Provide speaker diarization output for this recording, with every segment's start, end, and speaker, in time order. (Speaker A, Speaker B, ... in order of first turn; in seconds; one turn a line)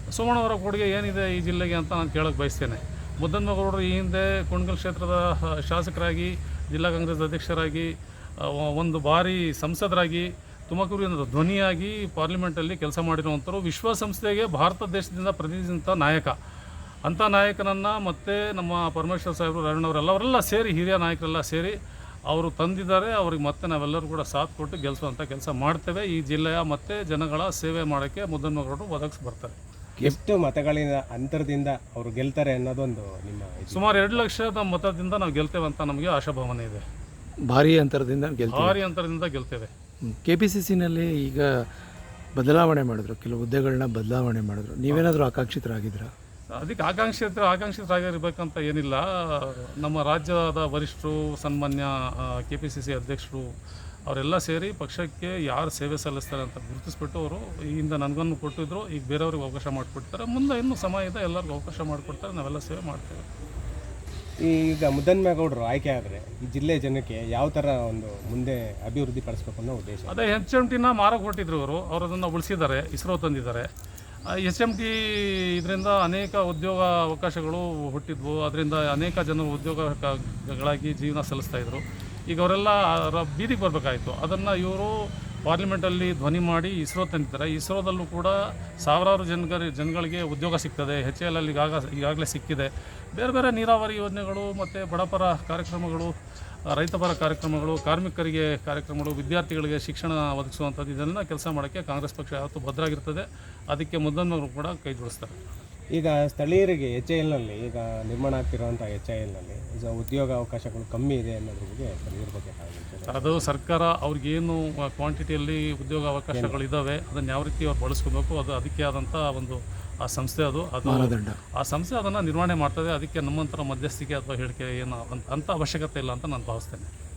Speaker A: 0.1-16.4
Speaker A: 17.1-21.8
Speaker A: 22.3-29.6
Speaker B: 30.0-34.2
Speaker A: 33.7-36.8
Speaker C: 37.5-38.8
Speaker A: 38.5-39.7
Speaker C: 40.0-41.7
Speaker C: 42.4-46.1
Speaker A: 46.5-53.5
Speaker A: 54.1-63.3
Speaker B: 64.4-70.2
Speaker A: 70.1-73.7
Speaker A: 74.3-96.1
Speaker A: 96.7-105.4
Speaker B: 105.9-113.5
Speaker A: 113.1-126.9
Speaker B: 116.3-116.6
Speaker C: 120.8-121.4